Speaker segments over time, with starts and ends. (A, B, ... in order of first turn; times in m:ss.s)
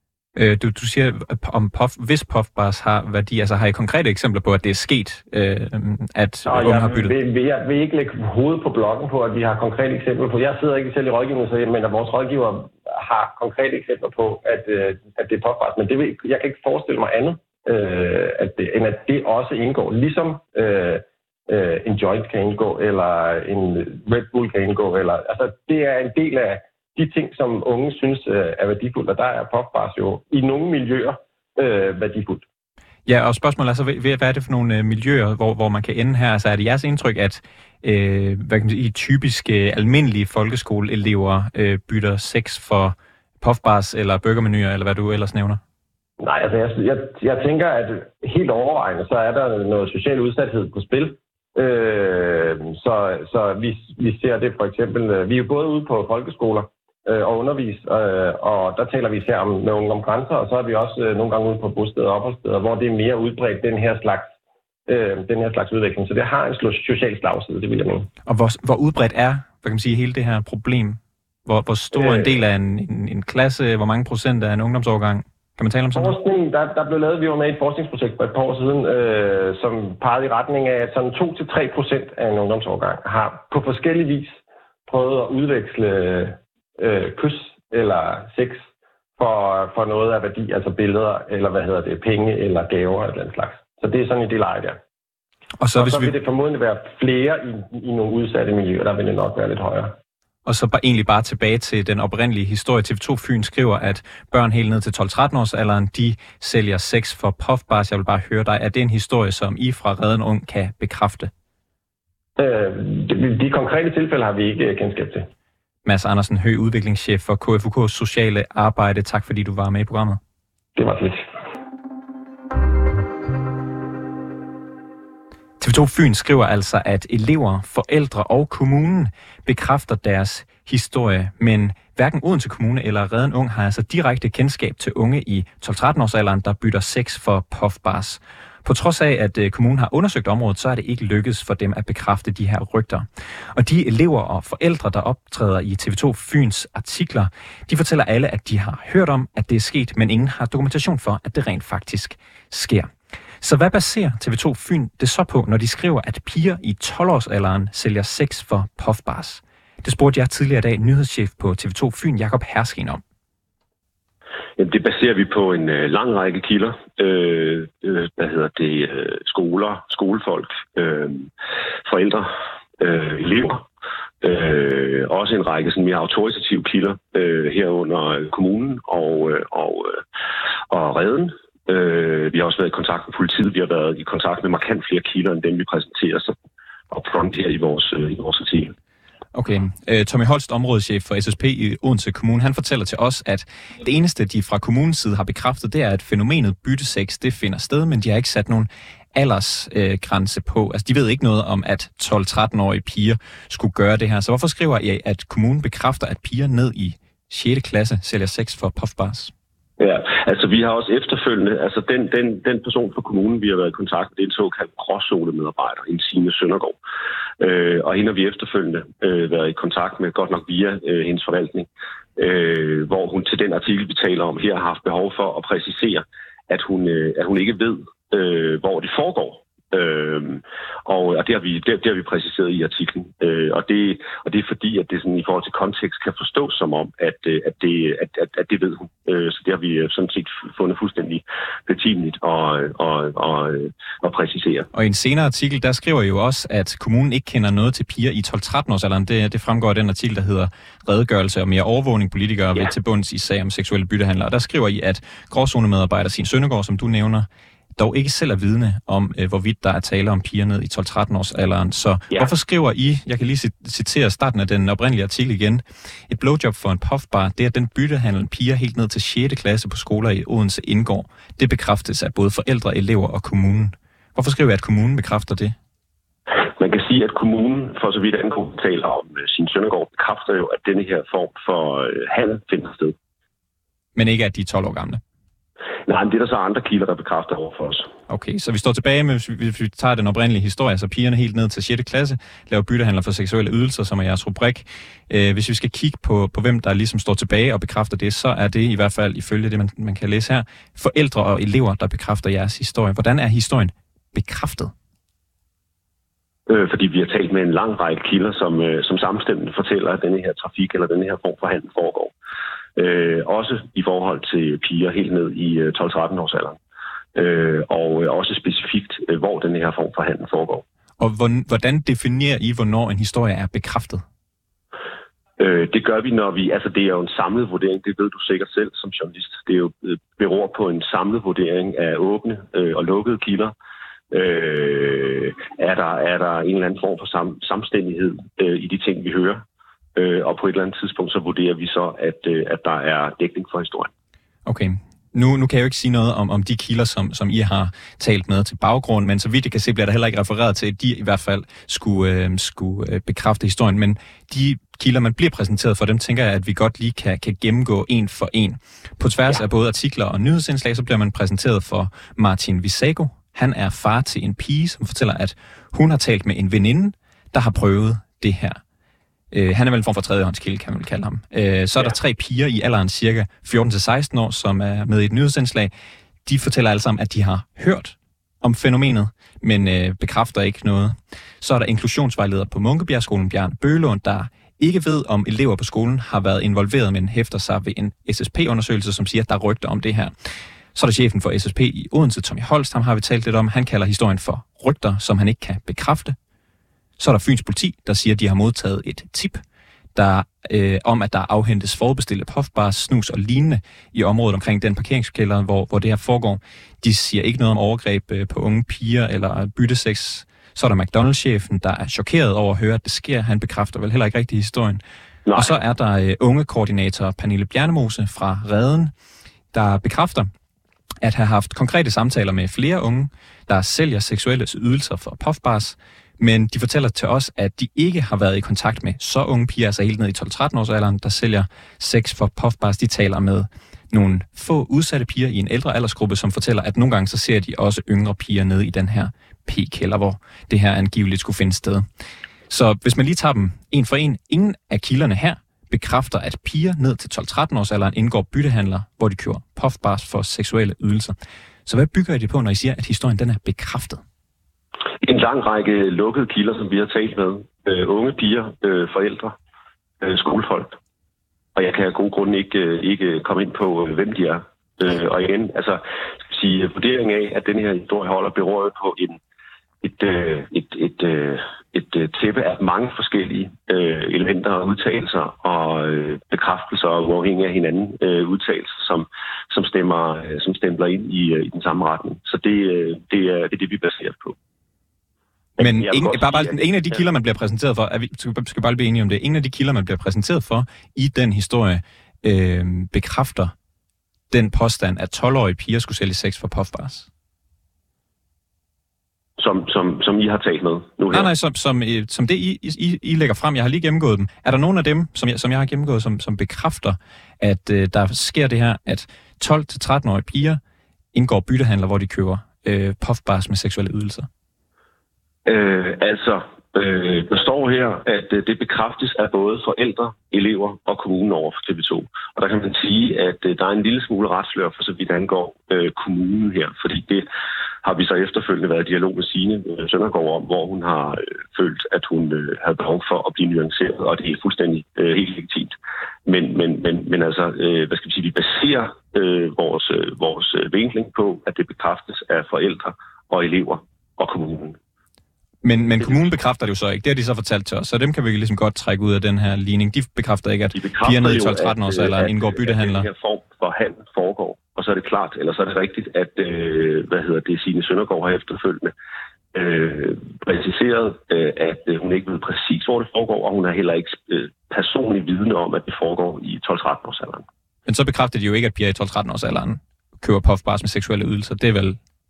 0:00.4-0:07.1 A
0:06.5-0:32.5 B
0:33.1-0:45.6 A
0:46.2-1:04.3 B
1:04.9-1:08.1 B
1:08.3-1:16.2 A
1:11.9-1:12.3 B
1:16.0-1:28.6 B
1:29.2-1:34.8 B
1:35.6-1:36.1 A
1:35.8-1:40.0 B
1:40.5-1:51.3 A
1:52.4-1:55.3 B
1:55.8-2:00.2 A
2:00.8-2:01.3 B
2:05.6-2:43.0 A
2:44.6-2:51.3 C
2:51.9-2:53.7 C
2:54.2-3:00.0 C
3:00.7-3:06.4 C
3:06.9-3:08.8 C
3:09.3-3:29.3 A
3:29.8-3:36.8 C
3:37.4-4:04.7 C
4:04.7-4:35.6 A
4:36.4-4:43.0 C
4:44.0-4:45.0 A
4:45.9-4:47.9 C
4:48.1-5:04.7 A
5:06.5-5:12.1 C
5:12.8-5:16.6 C
5:17.2-5:20.6 C
5:21.0-5:24.0 A
5:25.4-5:33.5 C
5:34.1-5:39.4 C
5:40.0-5:43.9 C
5:44.5-6:08.6 A
6:09.3-6:15.7 A
6:16.2-6:30.1 A
6:30.8-6:36.2 A
6:37.0-6:39.4 A
6:40.0-6:54.8 A
6:55.3-6:55.6 C
6:55.4-6:58.9 A
6:59.5-7:00.3 A
7:01.0-7:21.8 A
7:22.5-7:31.2 A
7:31.7-7:34.0 A
7:35.0-7:39.4 C
7:40.0-7:40.8 C
7:41.6-7:49.2 C
7:49.8-8:04.4 C
8:05.6-8:07.0 C
8:05.6-8:13.5 A
8:14.3-8:17.1 A
8:19.4-8:21.3 C
8:21.1-8:30.6 A
8:31.1-8:34.3 A
8:35.5-8:47.3 C
8:47.8-8:55.8 C
8:56.3-9:04.8 C
9:05.6-9:13.1 A
9:06.0-9:06.2 C
9:10.8-9:18.9 C
9:19.5-9:27.5 C
9:27.9-9:32.0 A